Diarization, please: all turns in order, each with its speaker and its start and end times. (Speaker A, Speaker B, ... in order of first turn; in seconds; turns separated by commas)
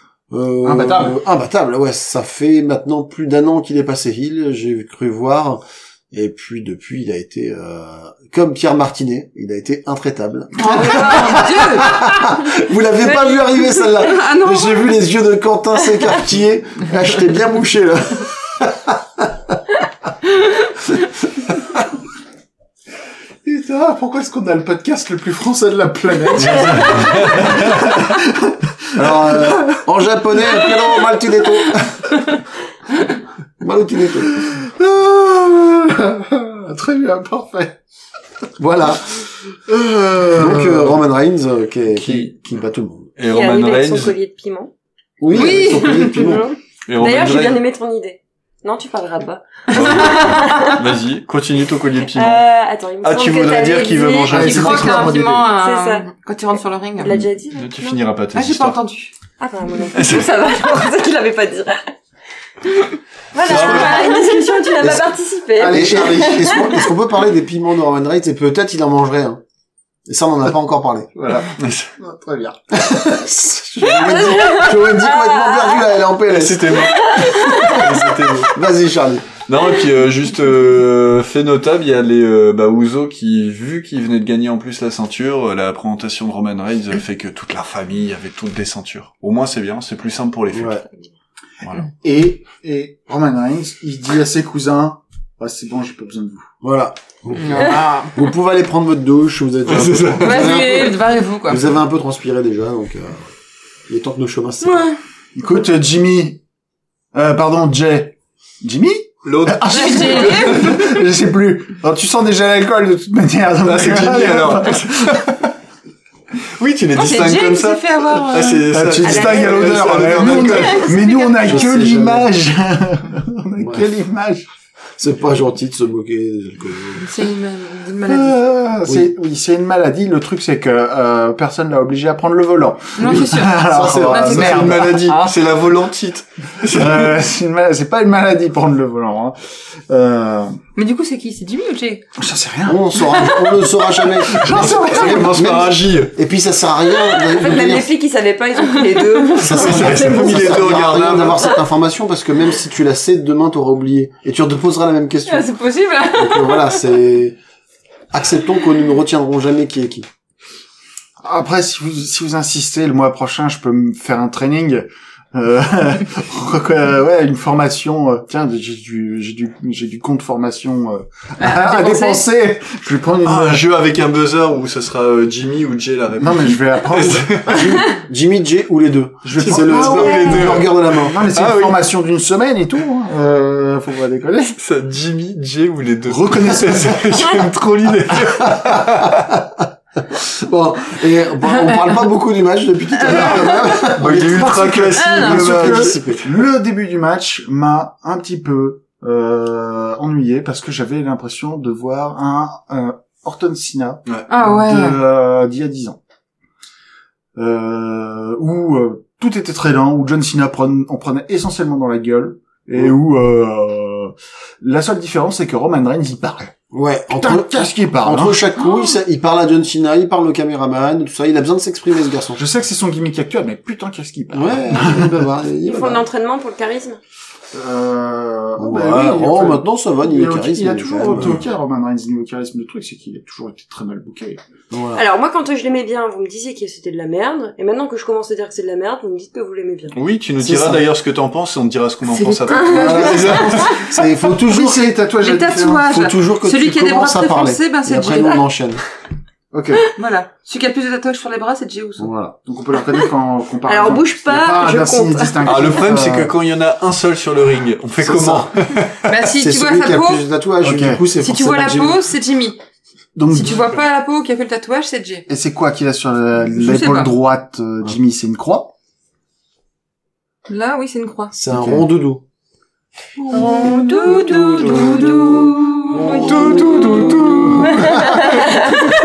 Speaker A: 0.3-19.5, Speaker B: 0.6-1.2, Speaker C: 10.6-12.2, Speaker D: 10.6-11.8, Speaker D: 13.1-13.8, Speaker C: 14.0-14.9, Speaker B: 23.4-29.8, Speaker E: 26.4-27.9, Speaker A: 29.0-32.0, Speaker A: 33.6-34.4, Speaker B: 34.3-37.8, Speaker A: 38.6-39.2, Speaker B: 39.5-41.0, Speaker A: 40.3-43.1, Speaker E: 42.0-42.3, Speaker E: 43.2-44.1, Speaker D: 43.2-44.7, Speaker A: 45.2-46.5, Speaker C: 45.3-46.3, Speaker D: 45.4-50.8, Speaker E: 46.9-47.6, Speaker E: 49.7-52.4, Speaker D: 52.1-56.0, Speaker E: 53.0-55.1, Speaker B: 54.3-55.4, Speaker C: 54.4-57.2, Speaker A: 54.7-55.2, Speaker D: 57.0-58.0, Speaker E: 57.5-58.8, Speaker C: 58.3-59.1, Speaker D: 59.4-61.9, Speaker E: 59.9-60.3, Speaker D: 63.3-66.8, Speaker E: 63.4-64.2, Speaker A: 63.5-64.0, Speaker A: 64.8-69.4, Speaker B: 65.6-66.7, Speaker A: 70.1-71.1, Speaker B: 71.2-72.9, Speaker E: 71.6-71.9, Speaker A: 72.7-77.5, Speaker D: 73.8-75.8, Speaker E: 76.3-78.5, Speaker D: 76.8-77.9, Speaker A: 78.5-79.3, Speaker E: 79.5-90.8, Speaker A: 90.5-90.8, Speaker B: 91.9-96.5, Speaker A: 96.6-103.3, Speaker C: 97.4-98.1, Speaker B: 97.5-98.0, Speaker E: 99.7-100.5, Speaker C: 100.2-101.7, Speaker A: 103.9-105.0, Speaker D: 104.7-104.9, Speaker B: 105.3-106.4, Speaker B: 107.1-115.5, Speaker E: 109.2-110.6, Speaker C: 109.7-110.9, Speaker E: 113.6-114.9, Speaker E: 116.6-120.9, Speaker C: 117.0-118.7, Speaker B: 118.7-124.5, Speaker D: 119.0-120.9, Speaker C: 120.6-121.6, Speaker A: 121.4-122.3, Speaker A: 125.0-127.1, Speaker C: 127.0-128.4, Speaker B: 128.0-135.1, Speaker A: 128.8-129.1, Speaker C: 132.9-135.3, Speaker A: 133.0-135.0, Speaker E: 134.4-137.1, Speaker B: 136.7-140.5, Speaker C: 140.8-142.0, Speaker B: 142.2-142.9, Speaker A: 142.6-147.9, Speaker C: 143.0-143.4, Speaker B: 144.3-145.4, Speaker E: 144.4-146.1, Speaker D: 147.2-150.7, Speaker C: 148.6-149.9, Speaker A: 149.3-155.6, Speaker E: 149.4-151.6, Speaker C: 155.3-156.8, Speaker A: 156.1-157.4, Speaker A: 158.1-160.1, Speaker B: 161.2-173.7, Speaker C: 171.4-172.2, Speaker E: 173.2-177.8, Speaker B: 176.2-177.7, Speaker A: 177.5-181.2, Speaker B: 179.2-184.6, Speaker E: 179.4-181.8, Speaker E: 184.6-189.3, Speaker B: 186.1-188.2, Speaker A: 190.1-196.2, Speaker E: 193.9-196.0, Speaker B: 194.1-206.0, Speaker C: 195.0-195.2, Speaker C: 204.3-205.0, Speaker B: 207.3-216.6, Speaker A: 216.7-222.4, Speaker B: 217.1-218.4, Speaker B: 222.3-225.1, Speaker A: 224.3-226.0, Speaker D: 225.6-227.0, Speaker B: 227.5-234.4, Speaker A: 228.6-231.4, Speaker A: 234.7-235.0, Speaker D: 234.9-239.9, Speaker E: 239.9-243.9, Speaker A: 240.4-240.8, Speaker C: 242.1-243.6, Speaker D: 242.5-243.8, Speaker A: 242.7-244.9, Speaker B: 244.4-245.9, Speaker C: 245.2-248.4, Speaker A: 245.8-248.8, Speaker D: 247.9-248.3, Speaker B: 249.5-249.9, Speaker C: 249.9-252.1, Speaker A: 252.0-252.3, Speaker B: 252.4-256.3, Speaker D: 253.7-255.8, Speaker E: 255.4-259.0, Speaker A: 258.0-258.5, Speaker C: 259.1-260.2, Speaker A: 259.2-262.0, Speaker B: 260.6-261.0, Speaker C: 261.2-262.6, Speaker B: 263.1-263.7, Speaker C: 263.3-265.2, Speaker B: 265.3-268.7, Speaker C: 266.5-267.1, Speaker C: 270.5-271.3, Speaker A: 271.3-272.2, Speaker E: 271.5-271.8, Speaker C: 273.2-278.0, Speaker D: 273.3-277.1, Speaker A: 273.3-278.3, Speaker B: 276.2-278.6, Speaker E: 276.5-276.8, Speaker D: 277.9-278.7